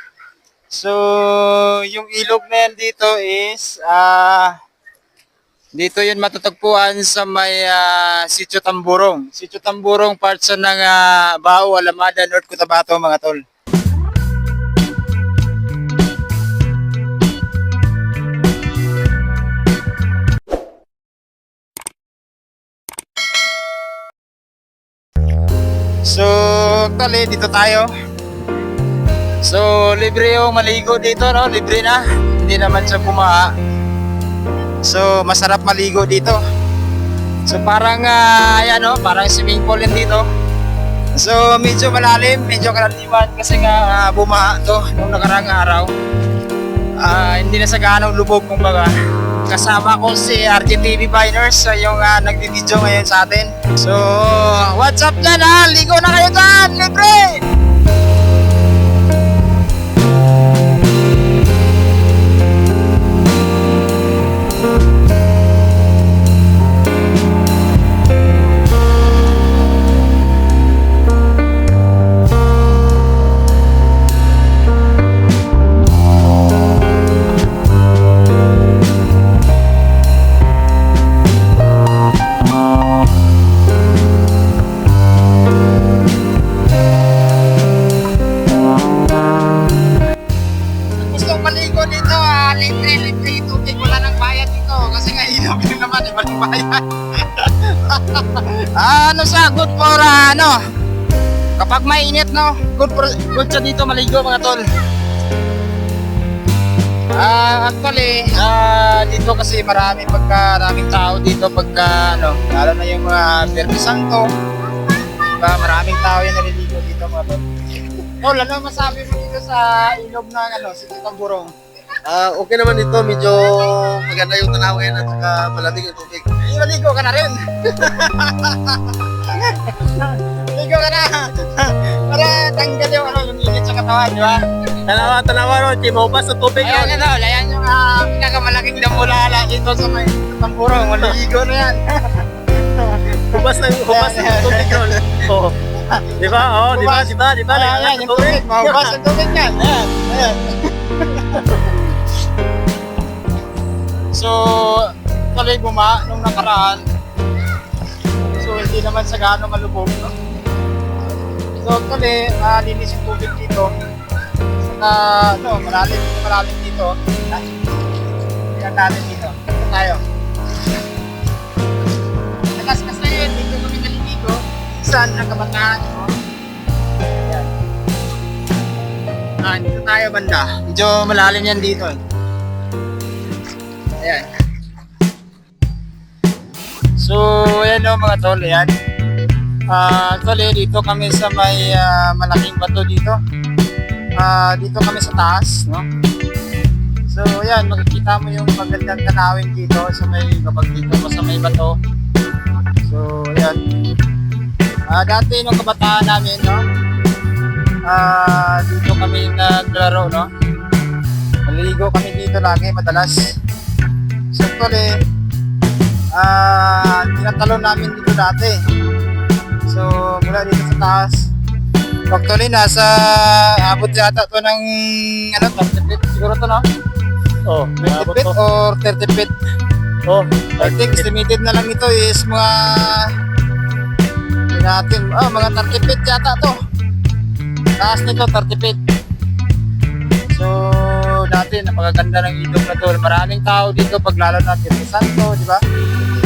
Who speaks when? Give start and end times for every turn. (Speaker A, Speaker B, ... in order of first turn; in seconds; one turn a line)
Speaker A: 0.7-4.5
Speaker A: 5.8-13.4
Speaker A: 26.0-27.9
Speaker A: 29.4-33.5
Speaker A: 34.8-36.4
Speaker A: 37.5-40.2
Speaker A: 41.2-45.9
Speaker A: 47.0-48.9
Speaker A: 49.5-57.4
Speaker A: 91.0-100.6
Speaker A: 101.6-104.6
Speaker A: 107.2-114.2
Speaker A: 115.3-117.5
Speaker A: 118.1-121.5
Speaker B: 122.0-126.2
Speaker A: 126.4-134.4
Speaker B: 134.8-137.1
Speaker A: 136.6-145.1
Speaker B: 143.3-145.6
Speaker A: 145.8-151.9
Speaker B: 146.2-149.0
Speaker A: 154.1-156.8
Speaker A: 158.3-160.1
Speaker A: 161.6-163.7
Speaker A: 164.6-167.7
Speaker A: 168.5-170.0
Speaker A: 172.5-176.1
Speaker A: 177.2-177.5
Speaker A: 179.4-182.0
Speaker A: 184.0-184.2
Speaker A: 187.0-188.7
Speaker A: 189.7-193.2
Speaker A: 194.2-195.8
Speaker A: 197.1-201.8
Speaker A: 202.8-203.6
Speaker A: 204.9-206.6
Speaker A: 207.8-210.3
Speaker A: 211.4-213.3
Speaker A: 214.3-214.9
Speaker A: 216.1-218.6
Speaker A: 219.7-221.2
Speaker A: 222.1-226.6
Speaker B: 227.4-228.3
Speaker A: 227.8-229.3
Speaker B: 230.1-231.1
Speaker A: 230.6-233.1
Speaker A: 234.5-236.6
Speaker A: 237.8-238.8
Speaker A: 240.3-245.6